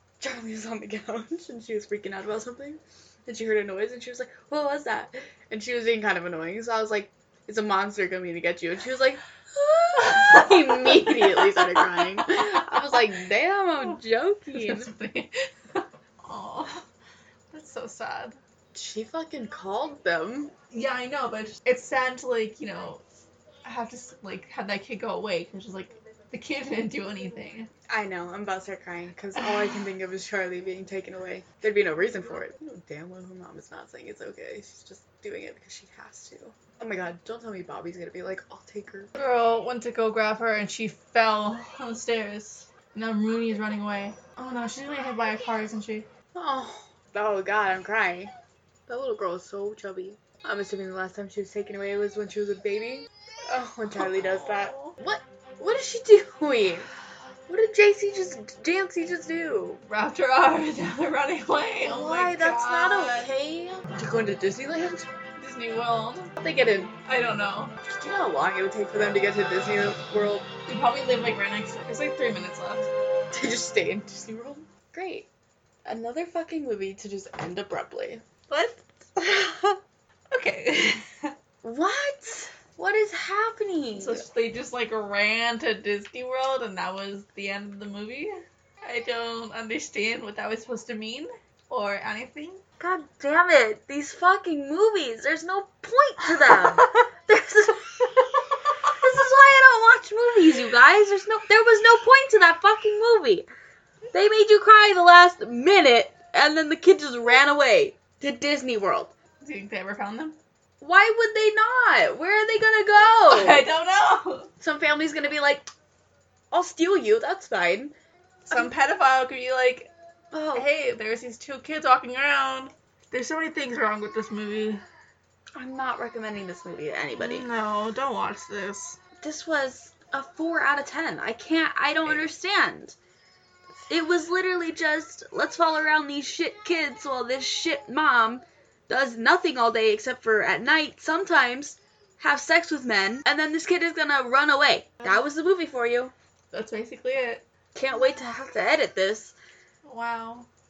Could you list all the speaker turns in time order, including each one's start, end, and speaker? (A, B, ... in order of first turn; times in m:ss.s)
0:00.2-0:14.9 A
0:14.5-0:16.8 B
0:17.5-0:18.4 B
0:18.7-0:20.5 A
0:20.7-0:23.0 B
0:23.6-0:27.7 B
0:27.9-0:39.1 A
0:39.2-0:46.1 B
0:46.3-0:48.3 A
0:48.9-0:56.9 A
0:54.0-0:55.0 B
0:57.5-0:59.8 A
0:59.9-1:03.3 B
1:01.8-1:05.1 A
1:05.4-1:06.4 B
1:06.4-1:06.9 A
1:07.0-1:07.8 B
1:07.8-1:10.5 A
1:10.7-1:12.9 B
1:13.3-1:15.3 A
1:15.8-1:18.2 A
1:18.5-1:19.8 B
1:20.3-1:21.4 B
1:21.6-1:24.3 A
1:24.0-1:32.6 B
1:32.8-1:38.3 A
1:39.0-1:43.5 A
1:44.1-1:49.1 A
1:49.4-1:50.4 B
1:50.8-1:53.6 A
1:53.3-1:54.5 B
1:54.6-1:55.7 A
1:56.5-1:57.9 A
1:58.5-1:59.9 B
2:00.3-2:00.7 A
2:00.5-2:04.8 B
2:05.6-2:07.5 A
2:07.2-2:09.0 B
2:09.2-2:13.0 A
2:12.0-2:12.3 B
2:13.9-2:26.1 A
2:26.5-2:27.4 B
2:27.8-2:29.3 A
2:29.8-2:30.5 B